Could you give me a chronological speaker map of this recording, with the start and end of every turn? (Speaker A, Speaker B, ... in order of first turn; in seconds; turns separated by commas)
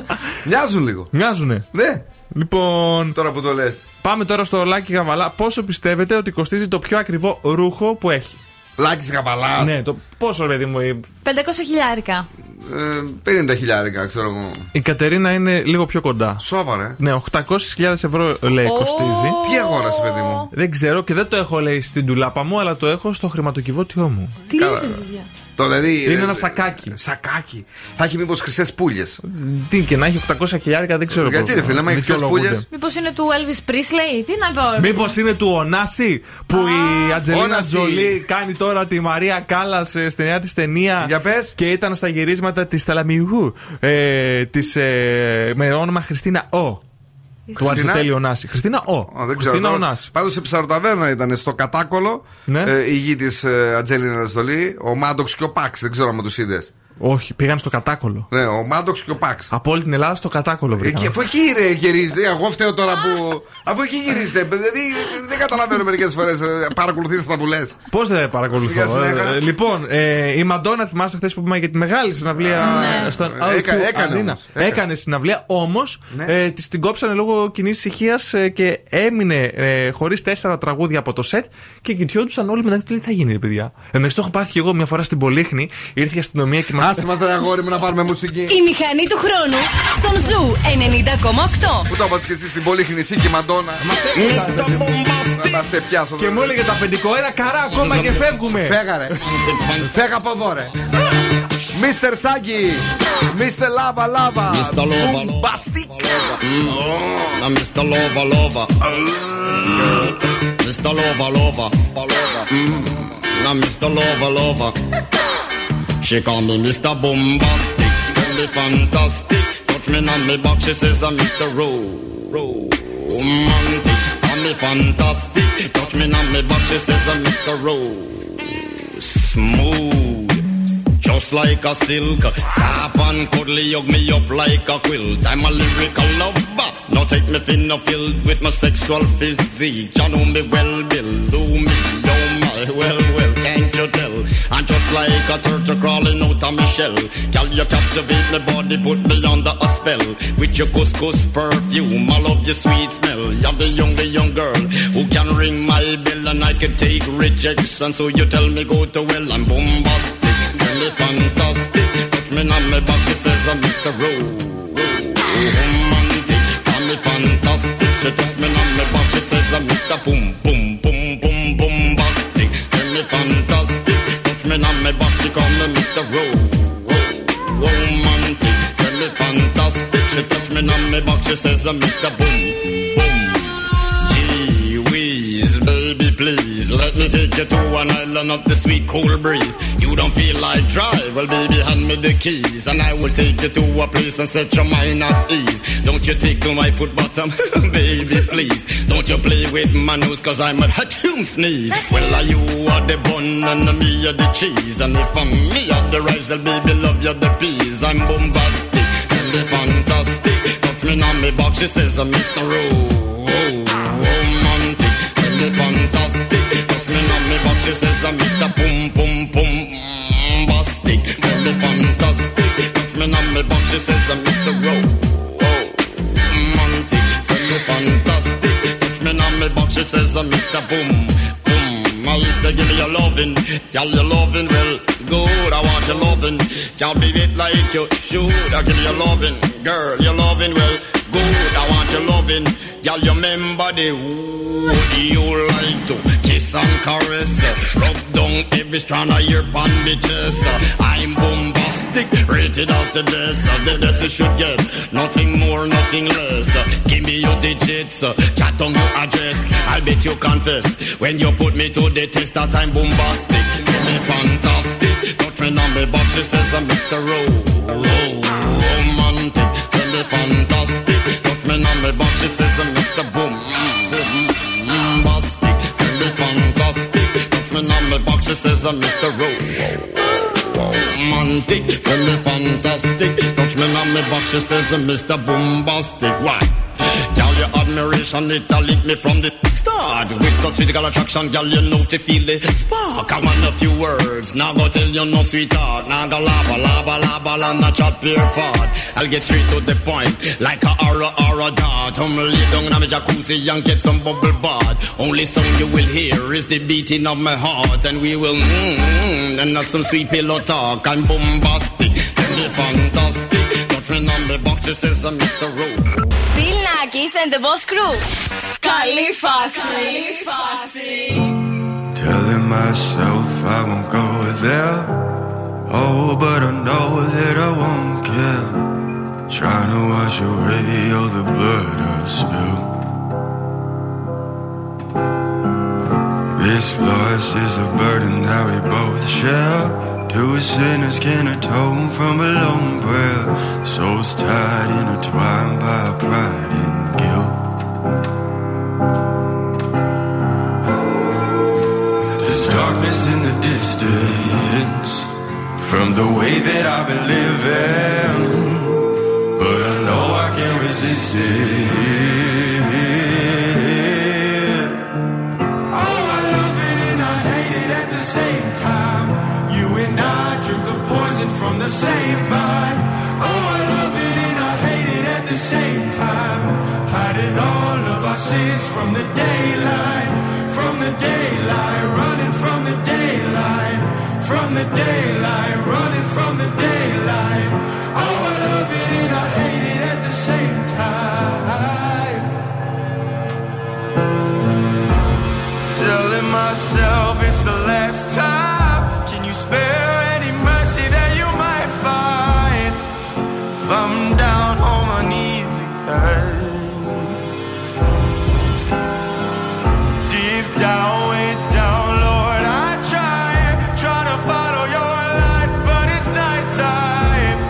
Speaker A: 0.4-1.1, Speaker B: 1.1-1.6, Speaker A: 1.7-2.0, Speaker B: 2.3-3.1, Speaker A: 3.1-3.8, Speaker B: 4.0-8.4, Speaker A: 8.8-9.7, Speaker B: 9.6-11.0, Speaker C: 11.2-12.3, Speaker A: 12.6-14.7, Speaker B: 14.7-16.4, Speaker A: 16.4-17.0, Speaker B: 17.0-19.4, Speaker C: 18.6-20.5, Speaker A: 19.4-20.5, Speaker B: 20.5-24.5, Speaker C: 24.5-25.2, Speaker A: 24.5-25.0, Speaker A: 25.6-29.2, Speaker B: 26.1-26.9, Speaker B: 29.3-32.6, Speaker A: 31.1-32.6, Speaker C: 32.7-35.1, Speaker B: 34.8-46.8, Speaker C: 36.5-37.2, Speaker A: 37.3-38.1, Speaker A: 41.0-41.5, Speaker A: 47.5-48.1, Speaker B: 47.6-50.1, Speaker A: 49.1-56.7, Speaker B: 52.5-52.7, Speaker B: 57.0-58.3, Speaker A: 58.3-59.5, Speaker B: 59.5-61.1, Speaker A: 60.8-67.8, Speaker B: 67.9-87.0, Speaker A: 68.5-69.4, Speaker A: 72.4-74.8, Speaker C: 72.6-73.1, Speaker A: 86.8-88.6, Speaker D: 88.5-91.9, Speaker A: 91.9-96.5, Speaker B: 93.9-95.0, Speaker B: 96.2-98.8, Speaker A: 97.8-99.2, Speaker E: 99.2-99.9, Speaker A: 99.8-100.7, Speaker A: 101.7-106.2, Speaker E: 104.5-108.7, Speaker A: 106.7-107.1, Speaker E: 109.8-110.0, Speaker E: 110.6-114.8, Speaker E: 116.0-130.4, Speaker E: 131.0-286.5, Speaker E: 287.1-315.9, Speaker F: 316.3-318.0, Speaker F: 318.6-320.0, Speaker G: 318.6-321.1, Speaker H: 321.9-324.9, Speaker H: 325.7-328.6, Speaker H: 329.3-332.7, Speaker H: 336.4-347.4, Speaker H: 352.2-358.6, Speaker H: 359.4-364.6, Speaker H: 395.6-402.7, Speaker H: 403.6-406.8, Speaker H: 410.1-417.3